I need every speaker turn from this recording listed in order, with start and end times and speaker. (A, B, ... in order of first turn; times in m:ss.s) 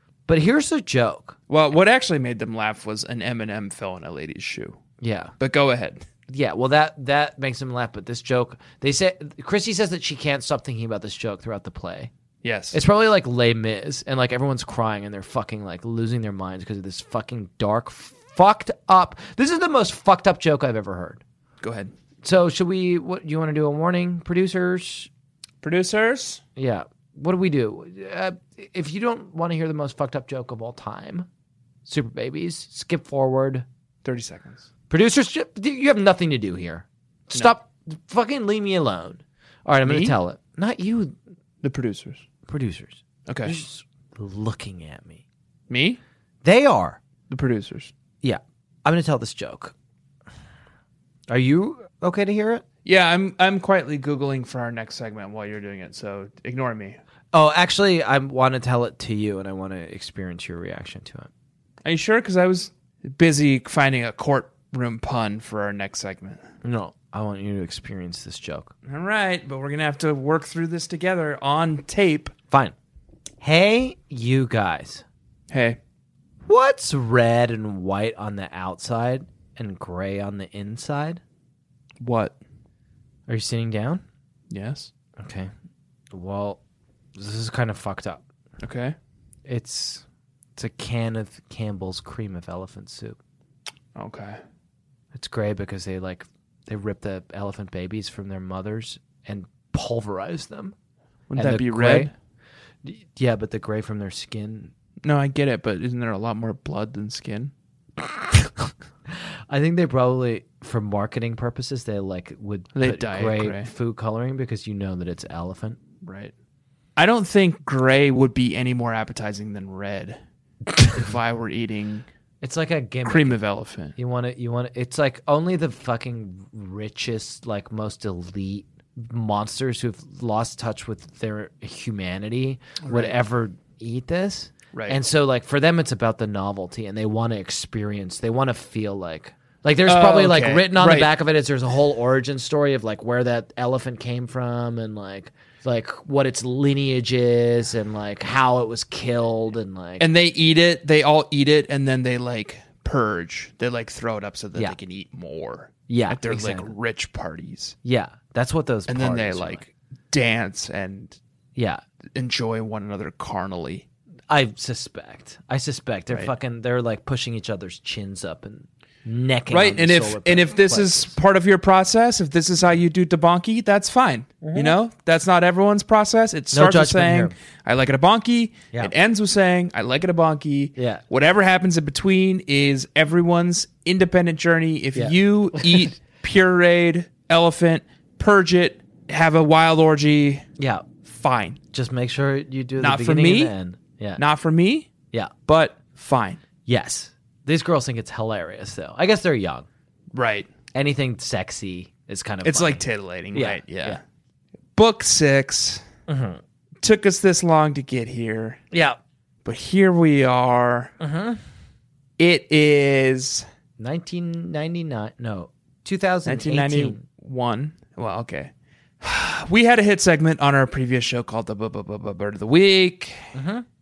0:00.3-0:01.4 A
0:01.5-0:04.8 B
0:05.0-0:05.3 A
0:05.4-0:06.0 B
0:06.3-0:12.1 A
0:12.4-0:12.8 B
0:12.7-0:21.2 A
0:21.6-0:21.9 B
0:22.2-0:25.1 A
0:25.6-0:26.4 B
0:26.6-0:31.3 A
0:31.8-0:33.7 A
0:34.0-0:34.6 B
0:34.9-0:41.2 A
0:39.8-0:40.2 B
0:41.6-0:42.2 B
0:42.5-0:45.2 A
0:43.3-0:43.6 B
0:45.7-0:46.0 B
0:46.4-0:47.0 A
0:47.3-0:47.9 B
0:48.2-0:49.8 A
0:51.3-0:52.6 A
0:52.8-0:57.0 B
0:57.3-1:01.3 A
1:01.8-1:06.4 B
1:06.6-1:08.7 A
1:08.9-1:12.3 B
1:12.5-1:12.8 A
1:13.4-1:15.0 A
1:15.5-1:15.8 B
1:16.5-1:21.2 A
1:22.0-1:22.4 B
1:23.3-1:24.0 A
1:24.5-1:24.9 B
1:25.2-1:25.5 A
1:26.1-1:26.6 A
1:27.2-1:28.2 A
1:28.6-1:29.0 B
1:29.5-1:30.0 A
1:30.6-1:33.2 A
1:34.0-1:34.4 B
1:35.1-1:40.8 A
1:41.3-1:42.1 B
1:41.4-1:42.1 A
1:42.8-1:44.7 A
1:45.0-1:47.5 B
1:49.1-1:55.8 A
1:52.7-1:53.7 B
1:56.0-1:56.3 B
1:57.0-2:00.2 B
2:00.9-2:02.1 B
2:02.4-2:03.4 A
2:03.1-2:03.9 B
2:04.0-2:30.1 A
2:12.8-2:13.2 B
2:14.7-2:15.0 B
2:19.8-2:21.1 B
2:30.0-2:37.8 B
2:35.9-2:36.7 A
2:37.8-2:39.6 A
2:38.9-2:41.2 B
2:41.6-2:41.8 A
2:42.1-2:43.8 B
2:44.3-2:51.2 A
2:49.5-3:10.4 B
2:54.4-2:54.8 A
2:56.5-2:57.4 A
3:00.8-3:01.0 A
3:05.0-3:05.9 A
3:10.6-3:10.9 A
3:11.0-3:11.6 B
3:11.7-3:14.2 A
3:12.8-3:13.5 B
3:14.2-3:14.9 B
3:15.5-3:16.4 B
3:16.6-3:19.7 A
3:20.1-3:20.5 B
3:20.7-3:24.0 A
3:22.4-3:24.0 B
3:24.8-3:25.8 B
3:26.1-3:26.4 A
3:26.8-3:28.6 B
3:28.7-3:29.0 A
3:29.4-3:30.9 B
3:31.0-3:31.4 A
3:32.2-3:33.5 B
3:33.8-3:37.0 A
3:36.2-3:43.3 B
3:43.3-3:43.6 A